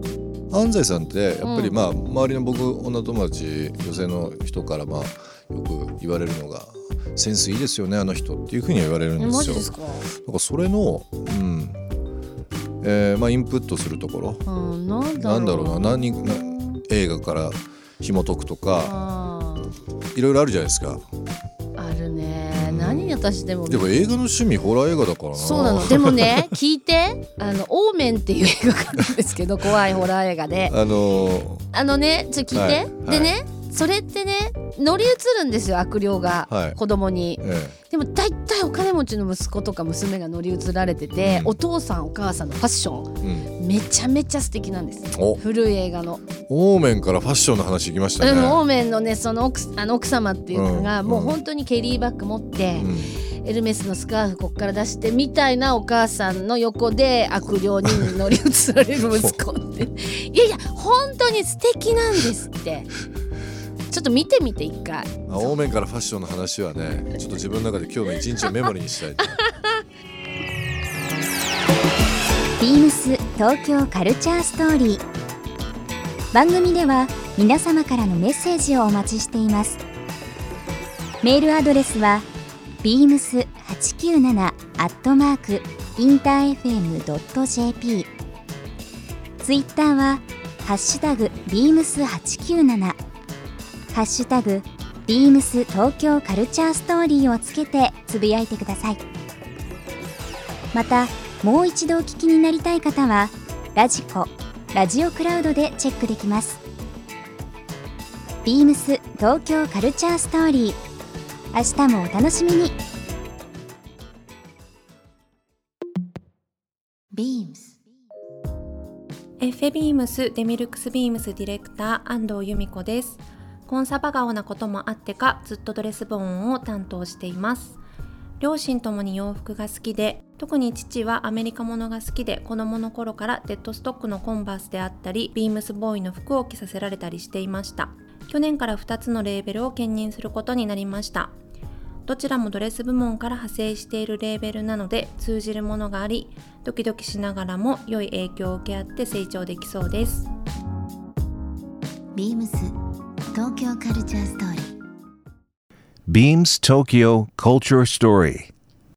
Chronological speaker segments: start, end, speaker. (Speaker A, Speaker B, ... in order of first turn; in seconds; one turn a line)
Speaker A: 0.5-11.8
Speaker B: 1.4-1.8
Speaker B: 9.2-10.1
Speaker A: 12.8-14.4
Speaker B: 14.4-16.8
Speaker A: 15.1-18.9
Speaker B: 18.8-19.7
Speaker A: 20.1-21.0
Speaker B: 21.8-23.9
Speaker A: 22.5-26.5
Speaker B: 25.3-30.8
Speaker A: 30.7-31.6
Speaker B: 31.7-46.2
Speaker A: 32.5-33.3
Speaker A: 36.5-36.8
Speaker A: 37.4-37.8
Speaker A: 41.2-41.5
Speaker A: 43.2-43.5
Speaker A: 45.1-45.4
Speaker A: 46.5-48.6
Speaker B: 48.2-62.9
Speaker A: 50.5-51.4
Speaker A: 52.7-53.2
Speaker A: 57.8-58.2
Speaker A: 59.0-59.4
Speaker B: 63.9-65.6
Speaker A: 65.3-69.4
Speaker C: 72.6-75.0
Speaker C: 76.3-79.8
Speaker C: 81.2-82.3
Speaker C: 82.8-88.1
Speaker C: 89.4-93.0
Speaker C: 93.9-99.0
Speaker C: 100.7-106.6
Speaker C: 108.5-110.8
Speaker C: 111.5-112.7
Speaker D: 117.1-117.8
Speaker E: 119.4-127.8
Speaker E: 128.4-141.3
Speaker E: 142.1-150.3
Speaker D: 152.1-152.7
Speaker D: 153.3-154.7
Speaker F: 156.1-158.5